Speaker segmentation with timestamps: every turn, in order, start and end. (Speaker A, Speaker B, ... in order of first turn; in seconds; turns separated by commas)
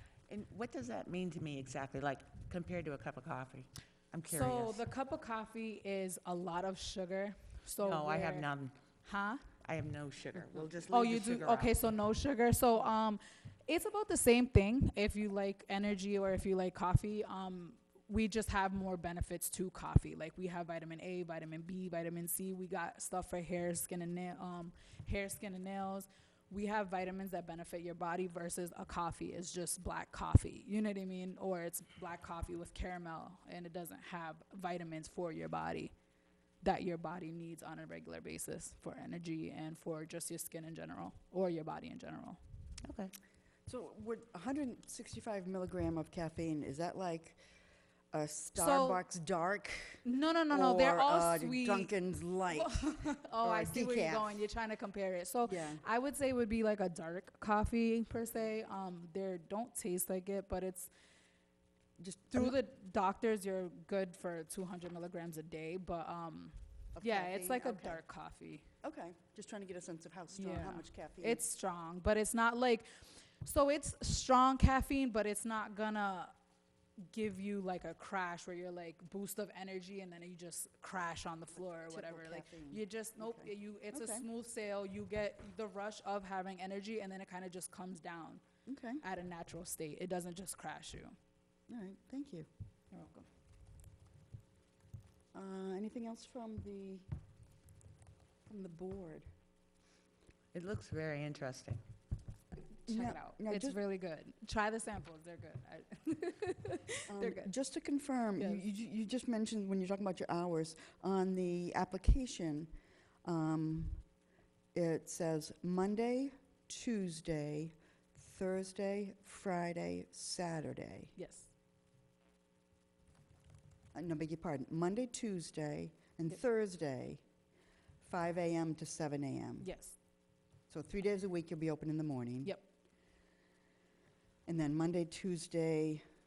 Speaker A: 0.3-4.8, Speaker B: 4.3-8.5, Speaker A: 7.8-8.8, Speaker B: 9.0-9.4, Speaker A: 9.6-11.7, Speaker B: 10.9-35.9, Speaker B: 36.6-42.4, Speaker A: 42.8-43.1, Speaker C: 43.7-47.4, Speaker C: 48.1-54.4, Speaker B: 48.5-49.0, Speaker B: 50.0-51.9, Speaker B: 52.5-60.9, Speaker C: 55.5-55.8, Speaker C: 62.0-62.6, Speaker B: 62.3-68.7, Speaker C: 67.0-68.0, Speaker C: 68.8-71.4, Speaker B: 70.3-72.9, Speaker B: 73.4-76.3, Speaker B: 77.0-88.4, Speaker C: 81.7-84.3, Speaker C: 88.7-89.0, Speaker B: 89.0-91.2, Speaker C: 91.7-92.5, Speaker B: 92.9-93.3, Speaker C: 95.3-97.1, Speaker C: 98.5-99.3, Speaker A: 100.5-101.8, Speaker B: 102.9-107.5, Speaker C: 102.9-103.8, Speaker C: 107.1-112.7, Speaker C: 113.2-114.0, Speaker C: 114.7-121.1, Speaker B: 121.2-121.5, Speaker C: 123.9-127.2, Speaker C: 128.0-129.7, Speaker B: 129.6-130.0, Speaker C: 130.7-132.5, Speaker C: 134.5-136.0